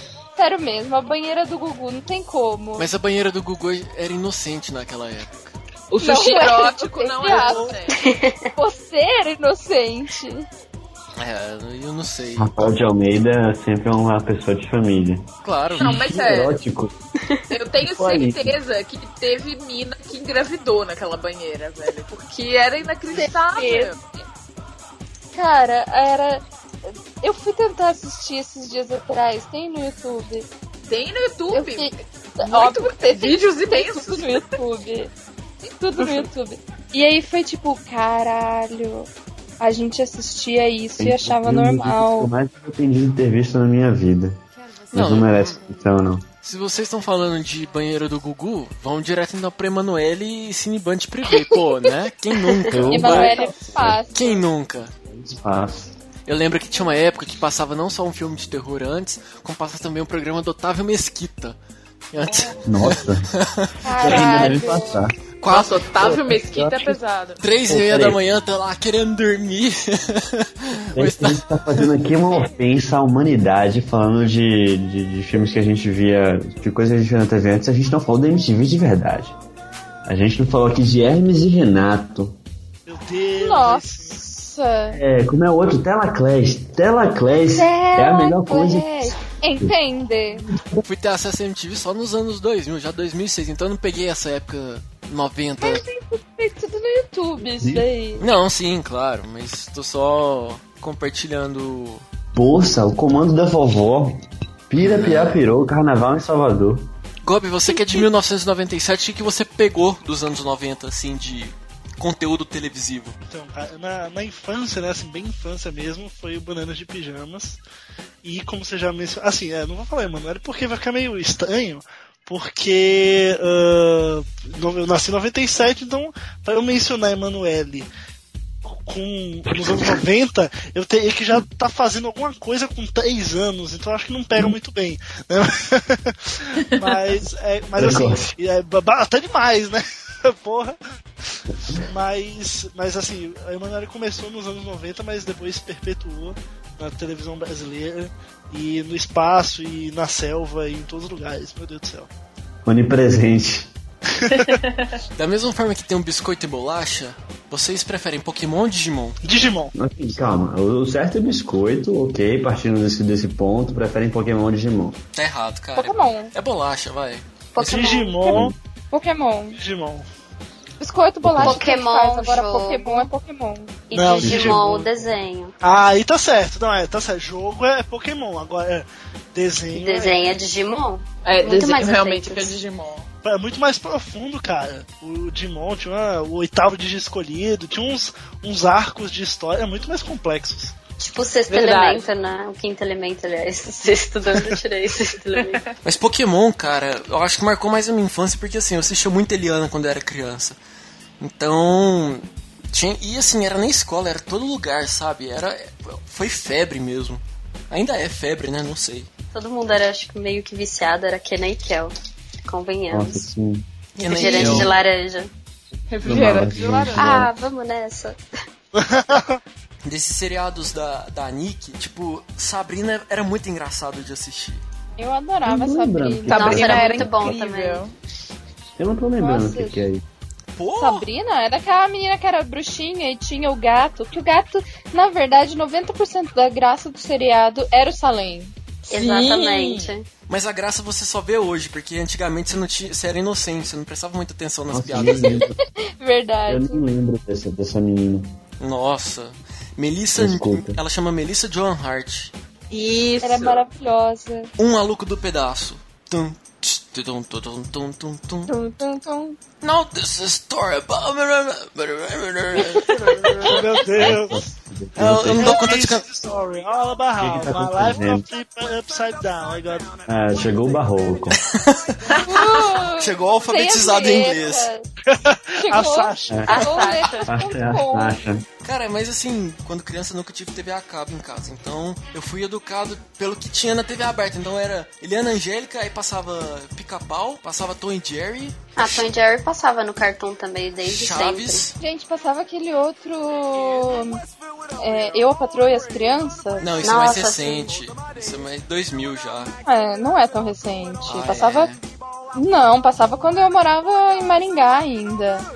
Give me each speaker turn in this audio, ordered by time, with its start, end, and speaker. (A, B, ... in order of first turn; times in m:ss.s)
0:00.4-0:02.9 A
0:02.8-0:05.5 B
0:05.9-0:08.0 C
0:06.0-0:07.8 A
0:07.2-0:07.7 D
0:07.9-0:08.5 E
0:08.6-0:10.5 A
0:11.2-0:12.7 B
0:12.4-0:17.0 F
0:15.4-0:16.0 B
0:15.8-0:16.6 C
0:17.5-0:24.0 C
0:17.9-0:18.6 F
0:23.1-0:24.2 A
0:25.3-0:30.5 A
0:30.9-0:34.6 C
0:31.5-0:35.1 A
0:35.6-0:39.1 A
0:36.0-0:36.3 C
0:39.6-0:42.3 A
0:41.0-0:46.3 F
0:44.9-0:45.6 B
0:46.4-0:53.4 B
0:52.7-0:54.0 F
0:52.9-0:54.4 A
0:54.1-0:54.9 B
0:55.1-0:56.0 F
0:56.3-1:01.6 B
1:02.1-1:04.5 B
1:02.6-1:03.3 F
1:03.8-1:05.0 A
1:04.0-1:07.0 F
1:05.4-1:05.8 B
1:05.5-1:07.4 C
1:07.4-1:11.9 B
1:07.7-1:08.2 F
1:10.9-1:19.4 F
1:20.0-1:22.4 F
1:22.9-1:24.2 D
1:23.4-1:25.0 A
1:24.9-1:29.7 F
1:27.5-1:30.4 A
1:30.4-1:30.8 F
1:30.8-1:35.8 B
1:35.6-1:38.2 A
1:37.6-1:37.9 F
1:38.2-1:42.0 B
1:42.3-1:46.9 F
1:44.8-1:45.4 B
1:47.2-1:53.2 B
1:53.3-1:57.6 D
1:58.2-2:07.9 D
2:08.7-2:20.8 D
2:17.8-2:18.3 F
2:21.9-2:32.1 D
2:32.6-2:33.7 F
2:34.1-2:34.6 D
2:34.4-2:34.9 C
2:35.2-2:39.2 B
2:39.2-2:39.7 D
2:39.8-2:45.0 F
2:45.1-2:47.2 B
2:45.8-2:46.3 A
2:47.6-2:48.4 E
2:47.6-2:48.6 D
2:48.3-2:48.6 F
2:48.9-2:49.6 A
2:49.6-2:50.1 D
2:50.8-2:53.7 A
2:51.2-2:51.6 F
2:51.4-2:53.1 E
2:53.9-2:55.6 E
2:53.9-2:54.7 D
2:54.2-2:54.9 F
2:55.6-3:00.3 D
2:59.7-3:02.6 E
3:01.2-3:03.1 C
3:03.2-3:10.8 D
3:11.0-3:15.6 E
3:11.5-3:12.1 C
3:15.8-3:20.6 B
3:21.2-3:29.1 B
3:29.3-3:31.9 E
3:32.4-3:33.2 E
3:32.9-3:33.6 F
3:34.0-3:35.3 E
3:34.0-3:34.7 B
3:34.3-3:34.7 F
3:35.9-3:37.2 C
3:36.0-3:37.3 F
3:37.0-3:38.2 E
3:38.8-3:39.4 D
3:39.9-3:44.6 B
3:45.0-3:46.7 A
3:45.4-3:47.4 F
3:46.3-3:47.9 C
3:46.3-3:47.8 E
3:48.8-3:50.0 F
3:49.2-3:49.8 A
3:50.6-3:51.0 B
3:50.7-3:59.7 A
3:58.9-4:00.1 E
3:59.0-3:59.8 C
4:00.3-4:05.5 B
4:04.7-4:05.6 F
4:05.4-4:06.8 A
4:06.5-4:08.4 F
4:08.6-4:12.3 B
4:10.2-4:10.8 F
4:12.7-4:13.6 C
4:13.2-4:14.5 A
4:14.6-4:18.5 B
4:18.5-4:19.4 A
4:19.6-4:22.9 B
4:22.7-4:24.4 D
4:24.0-4:25.6 F
4:25.0-4:26.0 B
4:25.4-4:30.0 D
4:27.2-4:28.3 F
4:30.1-4:31.4 F
4:31.5-4:32.0 B
4:32.1-4:32.6 C
4:32.2-4:34.9 A
4:32.8-4:34.7 B
4:35.1-4:36.6 D
4:35.6-4:38.2 A
4:36.5-4:37.3 E
4:37.3-4:38.4 F
4:38.6-4:49.1 B
4:48.8-4:51.7 E
4:50.8-4:51.8 B
4:51.8-4:54.2 A
4:54.8-4:56.8 A
4:56.6-4:59.5 B
4:56.8-4:57.8 E
4:59.7-5:01.7 A
5:01.1-5:01.8 B
5:02.4-5:05.5 A